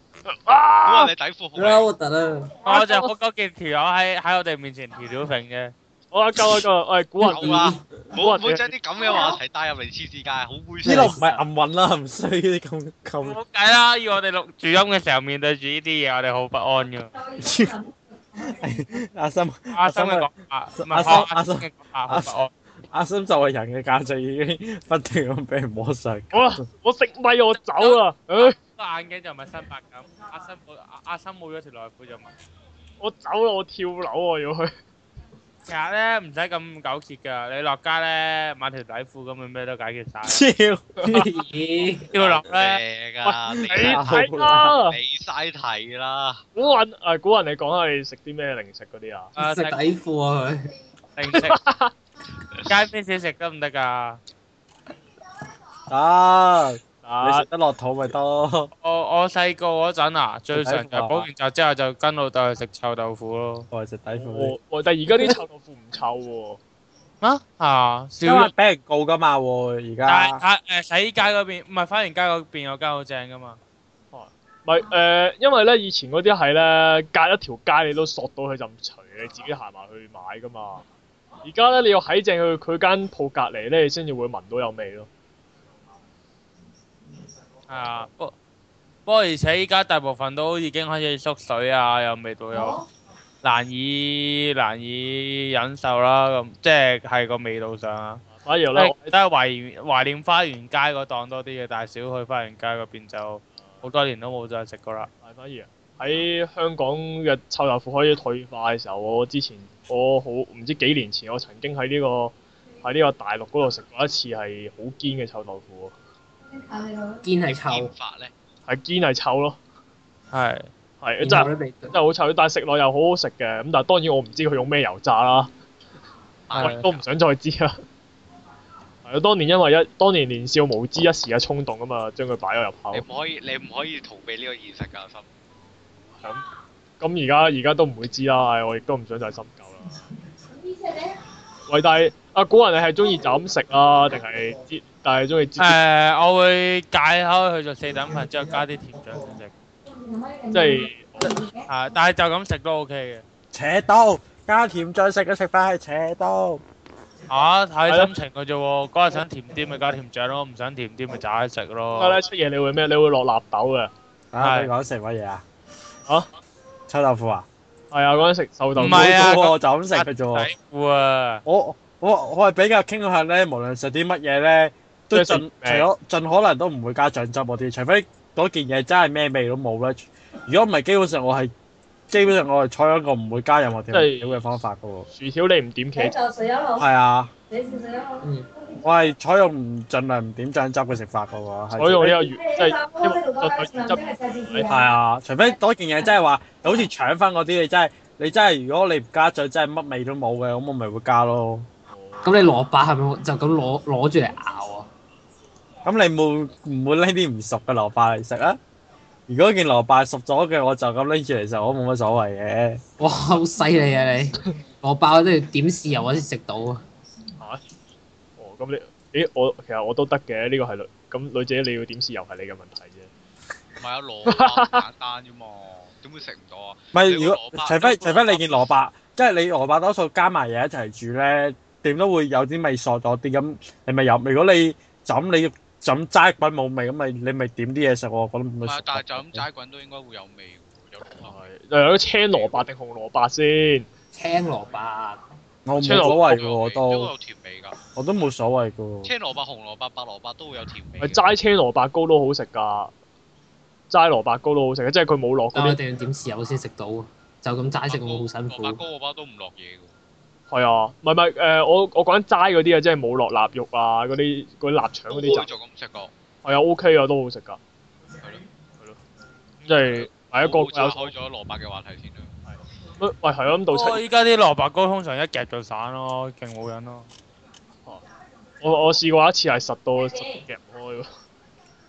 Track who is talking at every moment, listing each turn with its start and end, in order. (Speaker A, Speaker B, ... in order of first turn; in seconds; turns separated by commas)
Speaker A: 0.3-1.1, Speaker B: 0.8-1.9, Speaker C: 1.6-2.6, Speaker D: 2.6-5.7, Speaker A: 2.7-3.1, Speaker A: 6.1-8.7, Speaker C: 7.2-7.8, Speaker B: 7.3-11.2, Speaker E: 10.8-13.4, Speaker C: 10.8-11.4, Speaker D: 13.2-17.1, Speaker E: 17.4-17.8, Speaker E: 18.4-22.3, Speaker D: 19.7-22.5, Speaker E: 22.9-26.6, Speaker A: 26.3-28.5, Speaker D: 27.7-32.3, Speaker A: 33.0-34.7, Speaker D: 35.6-40.4, Speaker E: 40.2-41.2, Speaker C: 41.0-42.1, Speaker D: 42.1-42.8, Speaker B: 42.2-46.4, Speaker A: 43.2-45.0, Speaker E: 43.7-44.7, Speaker A: 46.5-49.3, Speaker D: 49.4-49.8, Speaker C: 49.4-50.7, Speaker D: 51.1-51.6, Speaker A: 51.3-51.9, Speaker D: 52.7-54.2, Speaker E: 55.9-58.7, Speaker A: 57.0-57.5, Speaker D: 58.8-63.7, Speaker E: 60.5-61.3, Speaker E: 63.7-64.5, Speaker A: 64.1-66.6, Speaker D: 67.2-68.5, Speaker E: 68.2-70.4, Speaker D: 70.1-73.6, Speaker A: 74.1-80.8, Speaker A: 81.4-85.1, Speaker D: 87.7-88.3, Speaker D: 89.0-92.8, Speaker D: 93.4-98.2, Speaker A: 98.3-99.1, Speaker D: 98.7-105.1, Speaker A: 105.2-115.9, Speaker C: 117.2-117.9, Speaker B: 117.5-118.3, Speaker A: 118.7-119.6, Speaker D: 120.3-120.7, Speaker A: 121.0-125.5, Speaker C: 121.2-121.9, Speaker B: 126.5-127.0, Speaker D: 126.5-126.8, Speaker A: 126.5-127.8, Speaker A: 129.0-133.0, Speaker B: 132.9-135.2, Speaker A: 137.0-139.9, Speaker A: 141.7-145.8, Speaker D: 145.6-149.5, Speaker A: 150.5-151.4, Speaker D: 151.7-153.2, Speaker E: 153.5-156.6, Speaker D: 157.3-162.2, Speaker A: 161.9-163.9, Speaker E: 164.3-165.4, Speaker D: 164.4-164.7, Speaker E: 166.9-167.4, Speaker A: 167.9-169.1, Speaker D: 168.8-171.4, Speaker E: 168.8-170.5, Speaker E: 171.4-181.5, Speaker A: 175.1-175.9, Speaker E: 182.1-185.1, Speaker A: 183.9-184.4, Speaker A: 185.1-186.3, Speaker E: 186.7-187.3, Speaker C: 188.2-188.5, Speaker E: 188.8-192.3, Speaker A: 191.8-194.7, Speaker E: 194.7-201.7, Speaker A: 201.9-202.5, Speaker C: 202.2-204.9, Speaker E: 205.8-208.6, Speaker E: 209.3-212.8, Speaker C: 213.0-216.8, Speaker A: 218.4-223.1, Speaker B: 223.8-228.7, Speaker A: 224.3-224.8, Speaker E: 226.9-239.4, Speaker B: 238.6-241.4, Speaker A: 241.2-243.9, Speaker B: 242.3-242.6, Speaker C: 244.1-245.2, Speaker E: 245.6-247.1, Speaker A: 245.8-246.2, Speaker B: 245.9-247.8, Speaker E: 247.9-249.1, Speaker B: 249.0-251.3, Speaker A: 251.0-252.9, Speaker A: 253.9-255.8, Speaker C: 255.5-258.8, Speaker B: 257.9-259.9, Speaker A: 260.5-265.5, Speaker B: 265.1-266.1, Speaker A: 266.4-267.6, Speaker A: 269.6-271.1, Speaker B: 269.9-272.3, Speaker A: 272.5-274.0, Speaker D: 273.7-277.1, Speaker A: 278.6-281.1